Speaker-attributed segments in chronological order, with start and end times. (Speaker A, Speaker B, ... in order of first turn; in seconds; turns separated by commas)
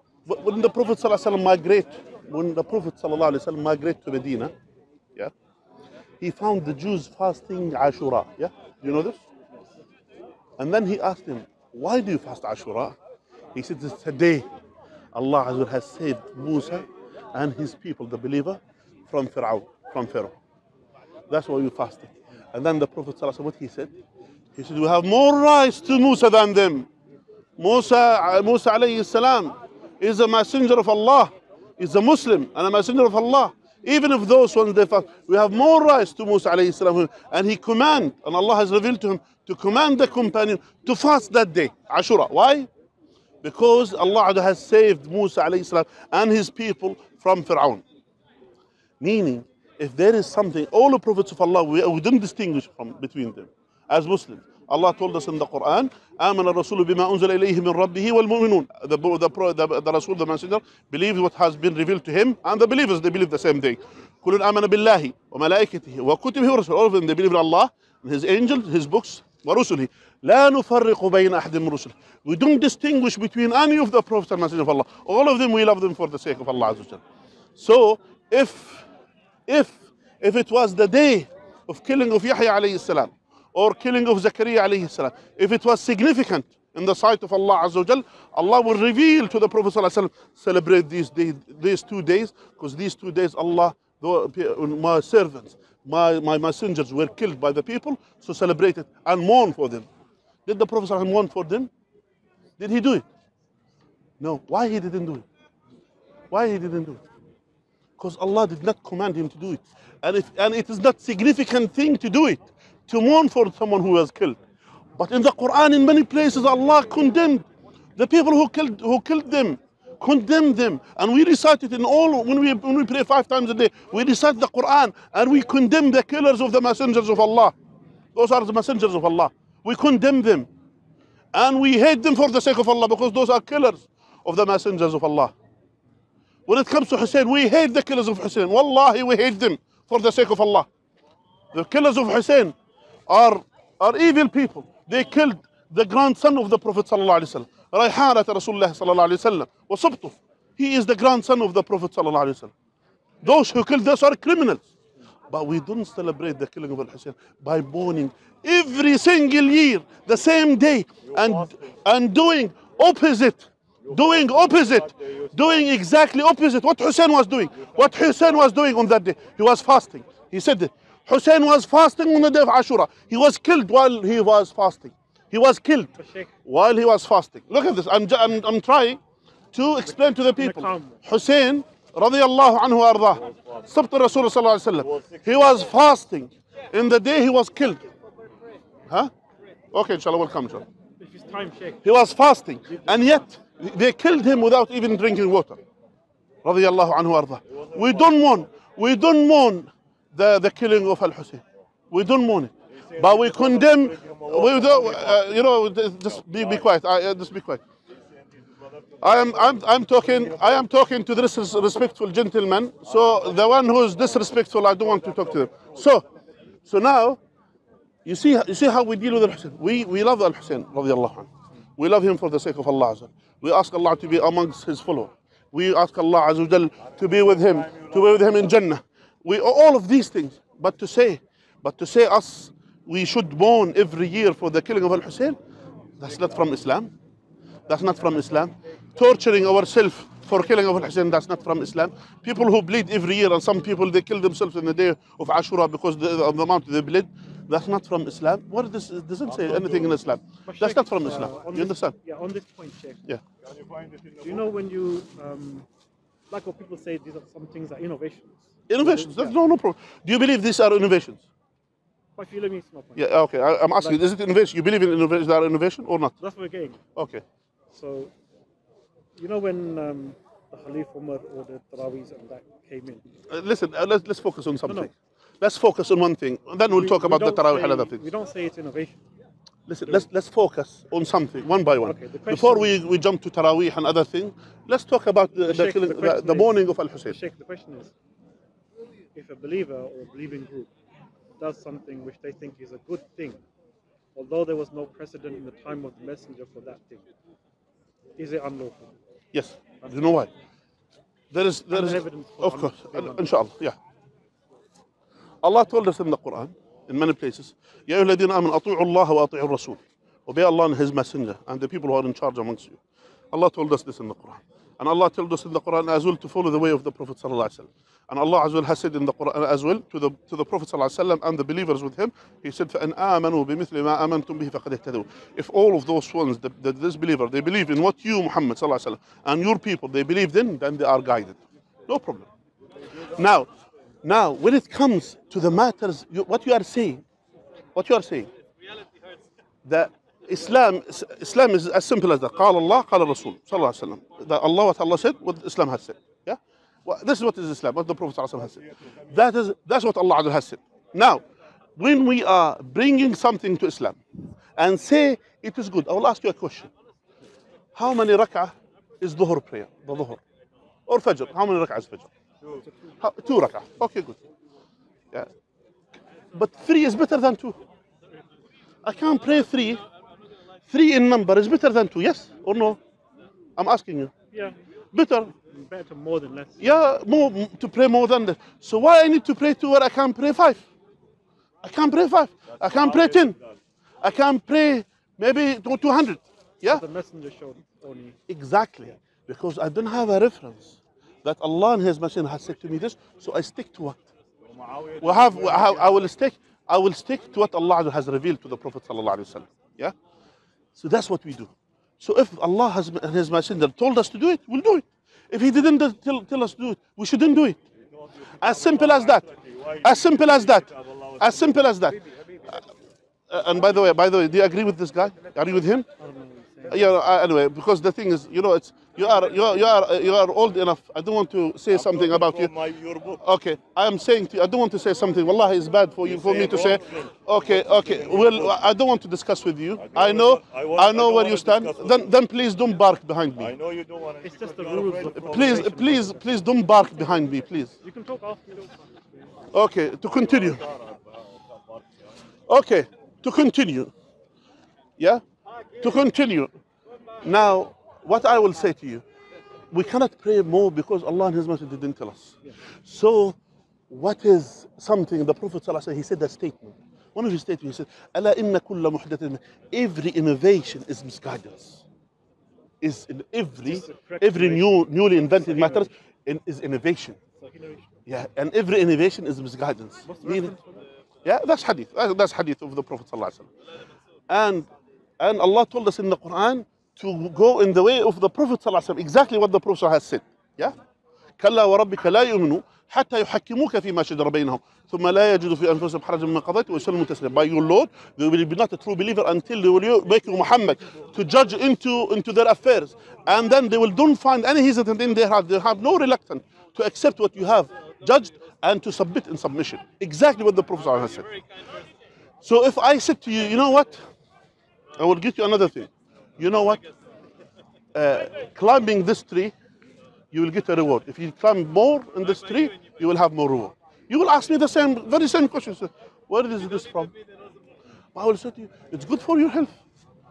Speaker A: 0.2-4.5, Speaker A: 6.2-9.2, Speaker A: 10.6-13.0, Speaker A: 13.6-14.4, Speaker A: 15.1-20.4, Speaker A: 21.3-23.9, Speaker A: 24.6-26.9, Speaker A: 27.6-42.7, Speaker A: 43.4-47.8, Speaker A: 49.0-77.0, Speaker A: 77.6-78.9, Speaker A: 79.5-99.9, Speaker A: 100.5-101.7, Speaker A: 102.6-103.0, Speaker A: 104.2-105.3, Speaker A: 106.3-107.0, Speaker A: 108.0-114.4, Speaker A: 115.0-117.5, Speaker A: 118.0-127.5, Speaker A: 128.2-130.5, Speaker A: 131.3-135.3, Speaker A: 136.5-140.7, Speaker A: 141.5-142.6, Speaker A: 143.1-152.5, Speaker A: 153.2-154.7, Speaker A: 155.3-175.9, Speaker B: 161.0-161.8, Speaker B: 163.8-165.7, Speaker B: 167.6-168.4, Speaker C: 176.0-176.3, Speaker A: 176.4-179.0, Speaker A: 179.5-187.9, Speaker C: 179.9-181.0, Speaker B: 183.2-183.7, Speaker B: 184.8-185.6, Speaker A: 188.9-189.1, Speaker A: 189.7-190.7, Speaker C: 191.0-191.9, Speaker A: 191.8-195.6, Speaker C: 192.7-193.3, Speaker A: 196.4-207.6, Speaker B: 197.6-198.1, Speaker B: 202.7-205.4, Speaker B: 206.2-206.6, Speaker B: 207.9-210.7, Speaker A: 209.0-216.1, Speaker B: 212.9-213.4, Speaker B: 214.8-215.8, Speaker A: 216.7-217.2, Speaker A: 218.1-235.4, Speaker B: 226.8-228.5, Speaker A: 236.0-236.9, Speaker A: 237.7-251.9, Speaker B: 249.3-250.1, Speaker C: 250.5-253.0, Speaker B: 253.4-254.5, Speaker C: 254.2-255.7, Speaker C: 256.3-259.4, Speaker A: 258.7-261.2, Speaker C: 262.2-263.2, Speaker A: 263.0-266.1, Speaker C: 263.8-264.0, Speaker C: 266.2-266.8, Speaker A: 266.9-267.2, Speaker C: 267.7-268.1, Speaker C: 269.2-273.0, Speaker A: 273.3-278.1, Speaker C: 274.6-274.9, Speaker C: 276.7-279.0, Speaker A: 279.7-287.2, Speaker C: 281.8-282.8, Speaker C: 285.4-287.9, Speaker C: 289.1-290.7, Speaker C: 291.4-293.4, Speaker C: 294.1-297.1, Speaker C: 298.2-298.9, Speaker A: 299.3-300.3, Speaker A: 301.3-303.8, Speaker C: 301.7-303.4, Speaker A: 305.4-312.8, Speaker A: 313.3-332.3, Speaker A: 333.0-333.5, Speaker A: 334.0-337.0, Speaker A: 337.8-338.3, Speaker A: 339.6-351.2, Speaker B: 348.6-349.1, Speaker A: 351.8-354.0, Speaker A: 354.6-356.7, Speaker A: 357.8-360.2, Speaker A: 360.9-362.1, Speaker C: 362.7-362.9, Speaker A: 363.0-364.2, Speaker A: 366.3-367.6, Speaker A: 368.8-369.8, Speaker A: 370.7-372.8, Speaker A: 373.6-374.1, Speaker C: 374.3-374.6, Speaker A: 374.9-375.3, Speaker C: 375.4-376.8, Speaker A: 376.6-380.6, Speaker A: 381.6-383.4, Speaker B: 382.5-383.6, Speaker A: 384.0-386.8, Speaker C: 386.6-388.2, Speaker A: 388.3-394.1, Speaker B: 394.5-396.1, Speaker A: 395.0-399.9, Speaker A: 400.8-407.6, Speaker B: 407.9-411.6, Speaker A: 408.4-409.2, Speaker A: 409.8-412.6, Speaker A: 413.3-415.9, Speaker C: 416.0-416.9, Speaker A: 416.7-422.5, Speaker B: 421.7-423.2, Speaker A: 423.2-433.6, Speaker B: 426.0-428.6, Speaker B: 429.8-432.1, Speaker B: 433.4-435.8, Speaker C: 434.2-436.3, Speaker A: 435.2-437.7, Speaker C: 437.8-439.3, Speaker A: 439.5-440.6, Speaker B: 440.1-441.9, Speaker A: 442.5-443.9, Speaker A: 445.0-445.2, Speaker A: 445.8-446.5, Speaker A: 447.2-449.0, Speaker A: 449.7-453.4, Speaker A: 453.9-461.8, Speaker A: 462.8-467.2, Speaker C: 463.6-465.9, Speaker C: 467.4-468.0, Speaker A: 468.1-470.5, Speaker C: 470.1-470.9, Speaker A: 471.2-473.5, Speaker A: 474.3-474.7, Speaker A: 475.2-480.8, Speaker A: 481.4-501.4, Speaker A: 502.4-504.1, Speaker A: 504.9-506.9, Speaker A: 507.9-509.5, Speaker A: 510.3-517.1, Speaker A: 518.1-519.8